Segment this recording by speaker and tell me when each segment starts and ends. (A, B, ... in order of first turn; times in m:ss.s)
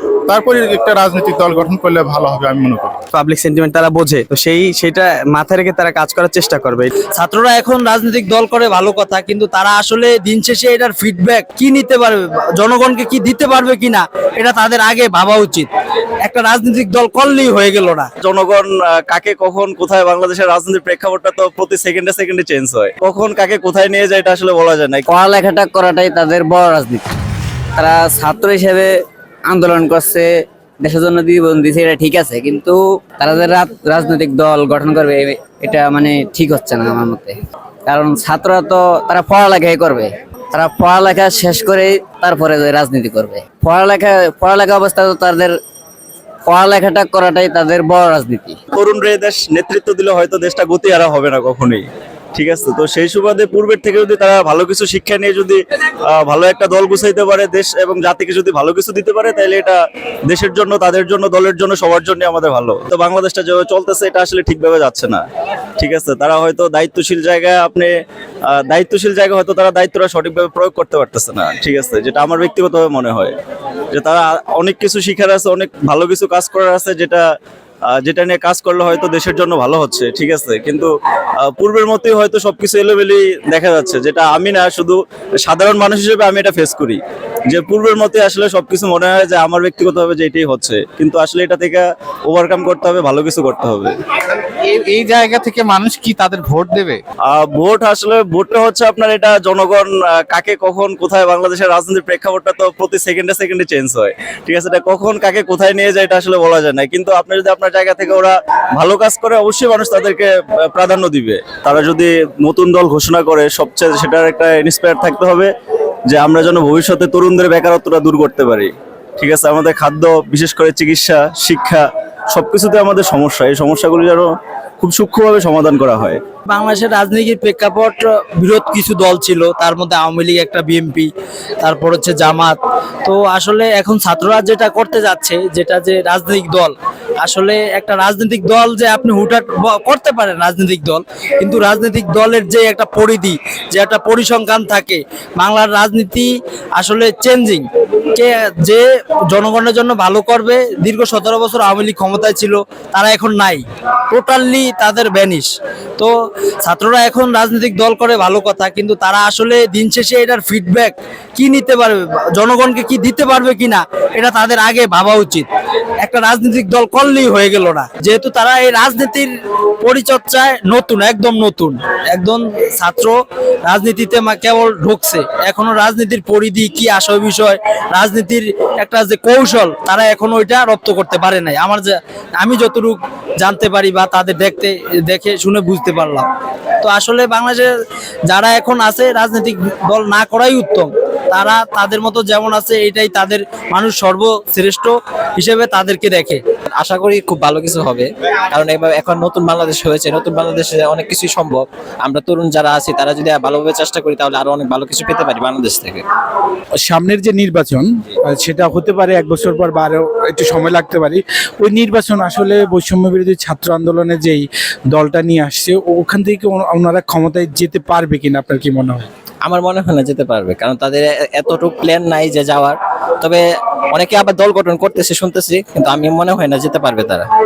0:00.3-0:03.0 A
0:03.1-0:06.9 B
0:07.2-0:15.7 C
0:16.2-0:18.1 C
0:18.2-0:25.0 D
0:25.1-0:27.2 E
0:27.8-0:28.9 E
0:29.5-0:37.4 E
0:37.9-0:45.6 E
0:46.5-0:48.6 E
0:48.7-0:51.8 D
0:52.4-0:59.8 D
1:00.3-1:05.2 D
1:05.8-1:07.9 D
1:08.5-1:13.3 D
1:13.9-1:17.2 D
1:17.9-1:20.9 D
1:21.5-1:27.0 D
1:27.5-1:34.0 D
1:34.5-1:37.0 F
1:37.3-1:55.5 D
1:56.1-2:04.3 D
2:04.8-2:06.2 D
2:06.5-2:11.1 C
2:11.6-2:36.1 C
2:36.6-2:45.5 C
2:46.0-2:49.3 C
2:49.8-3:06.3 C
3:06.8-3:07.7 C
3:08.3-3:16.4 C
3:16.8-3:26.0 G
3:26.8-3:39.1 H
3:39.4-3:47.3 G